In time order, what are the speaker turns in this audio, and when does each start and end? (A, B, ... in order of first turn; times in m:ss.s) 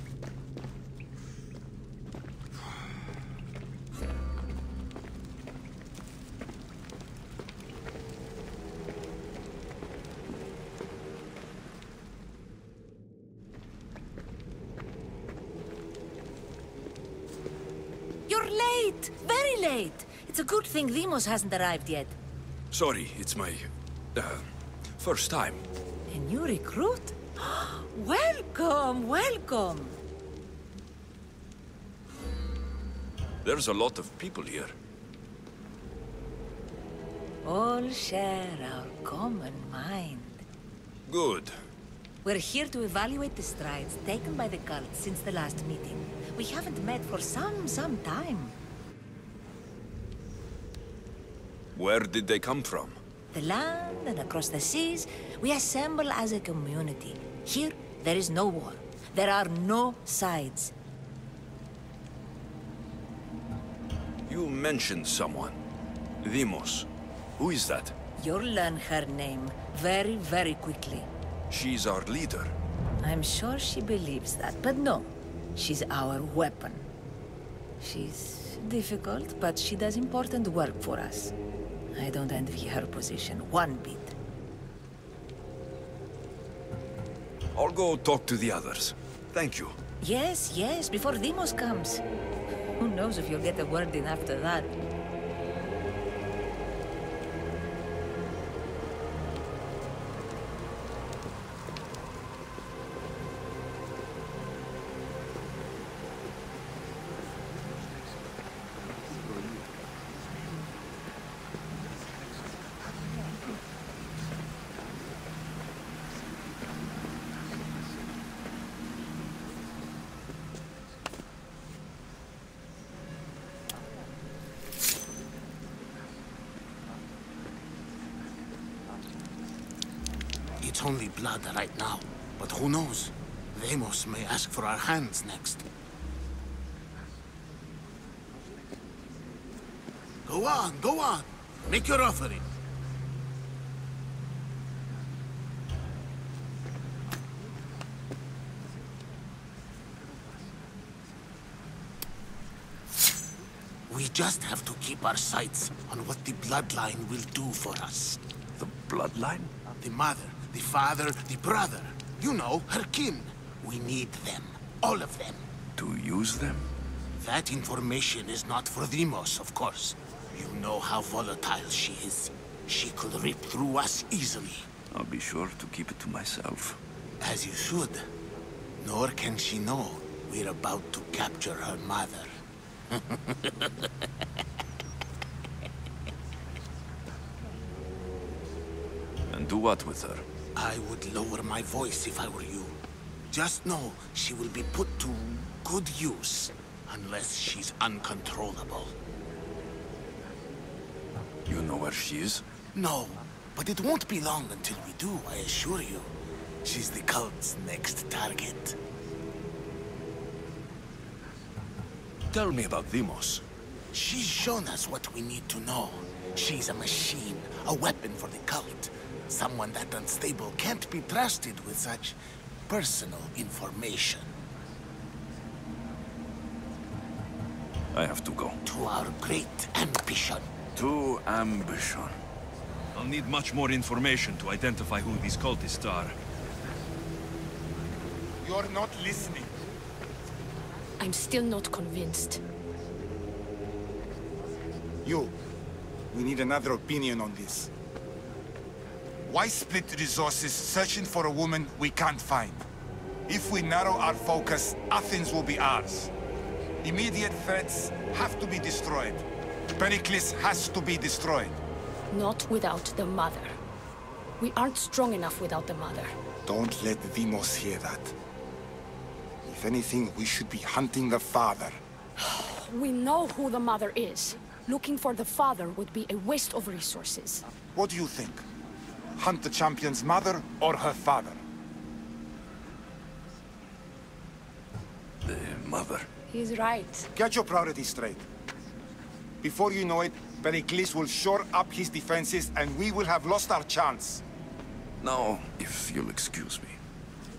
0:18.3-0:22.2 A
0:22.7-0:24.5 B
0:25.0-0:25.6 B
0:26.1-0:30.0 A
0:33.4-0:34.8 B
0:37.4-0:40.4 A
0:41.0-0:41.6 B
0:42.2-0:48.5 A
0:51.7-0:53.0 B
0:53.3-1:00.7 A
1:04.2-1:05.6 B
1:06.2-1:07.9 B
1:08.2-1:11.1 A
1:11.5-1:12.5 B
1:13.0-1:16.8 A
1:17.8-1:21.3 A
1:21.9-1:24.1 A
1:27.5-1:29.8 B
1:30.0-1:32.0 A
1:32.8-1:34.7 A
2:10.6-2:15.6 C
2:20.2-2:22.5 C
2:33.9-2:38.2 C
2:38.6-2:39.5 B
2:39.8-2:45.4 C
2:45.8-2:46.7 B
2:47.2-2:54.7 C
2:54.9-2:56.8 B
2:57.2-2:58.1 C
2:58.8-3:02.4 C
3:02.9-3:03.7 C
3:09.3-3:10.2 B
3:10.6-3:12.8 C
3:13.3-3:18.9 C
3:21.5-3:22.4 B
3:22.7-3:26.1 C
3:26.6-3:28.8 C
3:32.3-3:33.4 B
3:33.9-3:42.2 C
3:42.7-3:44.3 C
3:47.9-3:48.6 B
3:48.6-3:50.5 C
3:50.7-3:52.2 B
3:52.9-3:56.2 B
3:58.4-3:59.5 D
4:01.0-4:02.4 E
4:05.0-4:05.3 D
4:06.1-4:07.7 D
4:09.3-4:12.6 D
4:13.3-4:16.1 D
4:16.8-4:21.6 D
4:22.1-4:23.6 E
4:24.4-4:26.2 E
4:26.4-4:28.1 D
4:29.4-4:31.8 D
4:32.2-4:37.5 E
4:37.7-4:38.4 D
4:39.2-4:41.4 D
4:45.2-4:46.1 B
4:46.3-4:47.1 E
4:47.1-4:48.3 D
4:49.4-4:54.2 D
4:55.0-4:56.8 B